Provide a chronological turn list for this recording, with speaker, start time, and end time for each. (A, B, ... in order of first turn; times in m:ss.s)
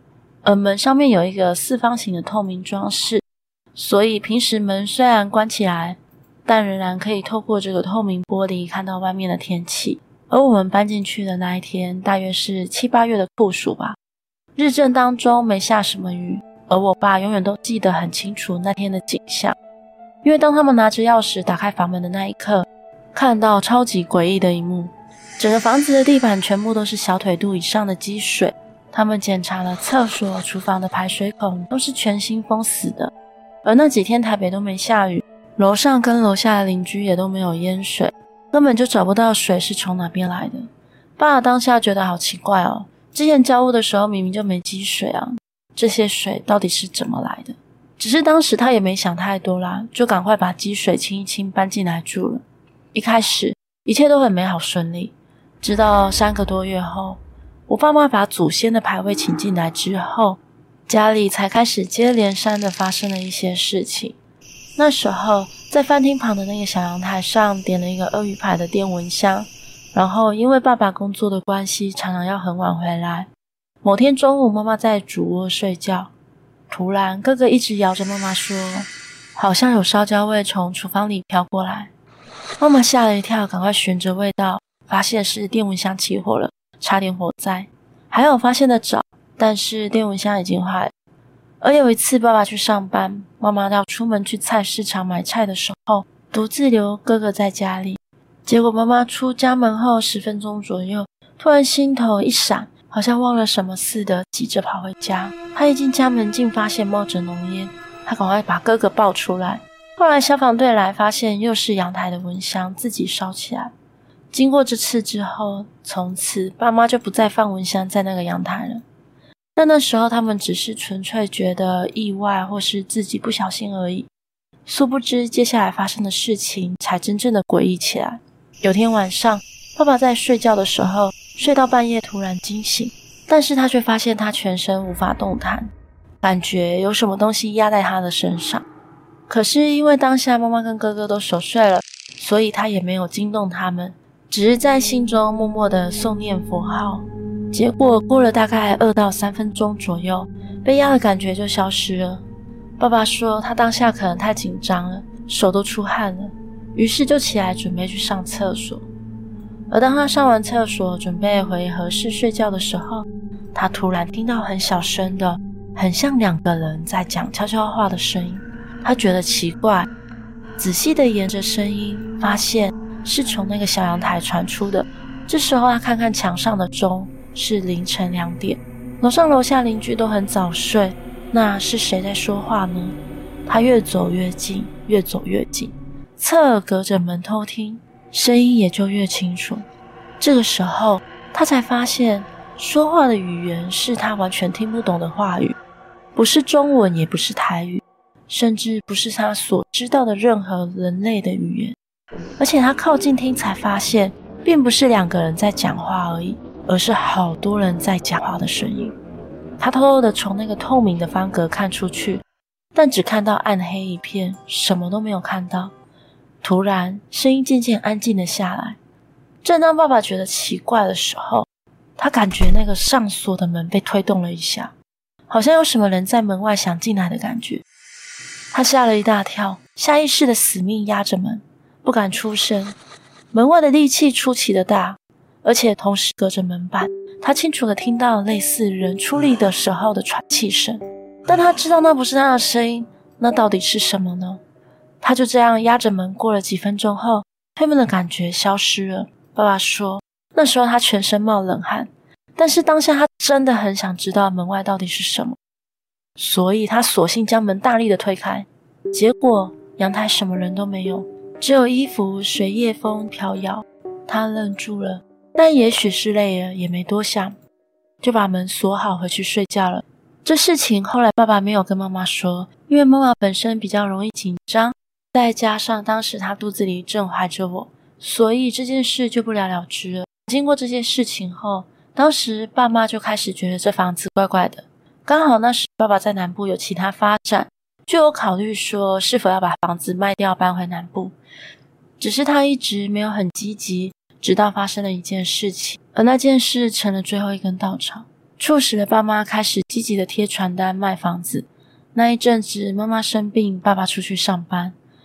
0:00.4-0:14.0 A
0:14.6-0:19.6 A
0:20.2-0:33.1 A
0:33.6-1:04.2 A
1:04.8-1:13.3 A
1:13.8-1:16.1 A
1:16.7-1:21.9 A
1:22.6-1:30.9 A
1:31.6-1:53.7 A
1:54.3-1:58.8 A
1:59.6-2:04.1 A
2:04.6-2:18.6 A
2:19.3-2:32.2 A
2:32.8-2:38.8 A
2:39.7-2:49.9 A
2:50.6-3:09.6 A
3:10.2-3:15.6 A
3:16.1-3:21.8 A
3:22.4-3:28.9 A
3:29.6-3:32.2 A
3:32.7-3:35.7 A
3:36.4-3:38.8 A
3:39.4-3:44.7 A
3:45.3-3:47.6 A
3:48.5-3:52.7 A
3:53.3-4:04.4 A
4:05.0-4:15.4 A
4:16.2-4:27.4 A
4:28.0-4:51.2 A
4:52.0-5:04.7 A